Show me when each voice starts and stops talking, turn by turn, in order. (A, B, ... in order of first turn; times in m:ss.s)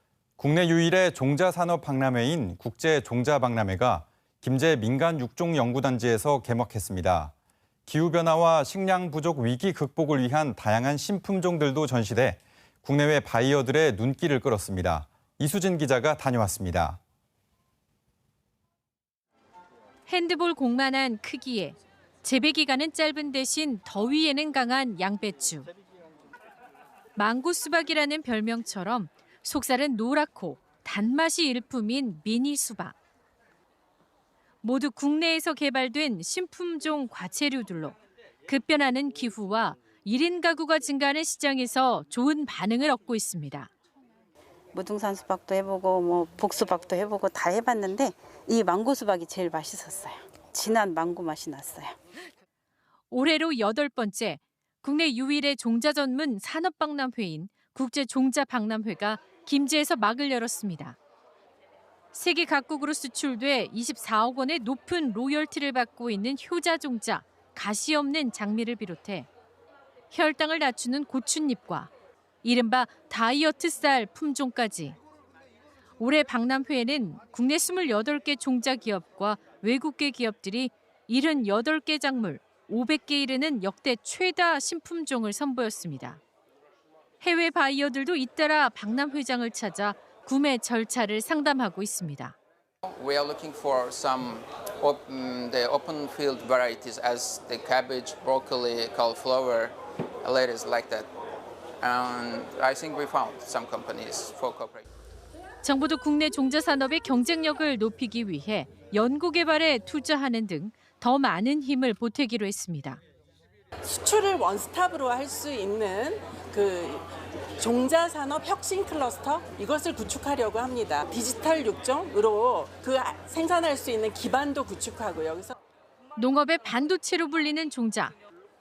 0:00.4-0:07.3 A
0:07.9-0:17.0 A
0:20.1-0:25.7 B
0:27.2-0:32.9 B
0:34.6-0:43.7 B
0:44.7-0:52.0 C
0:53.1-1:01.0 B
1:02.1-1:09.3 B
1:10.1-1:11.9 B
1:12.4-1:15.0 B
1:16.0-1:26.2 B
1:27.2-1:32.4 B
1:32.8-1:41.1 D
1:41.8-1:44.8 D
1:45.6-1:53.0 B
1:53.8-2:05.6 E
2:06.2-2:08.1 B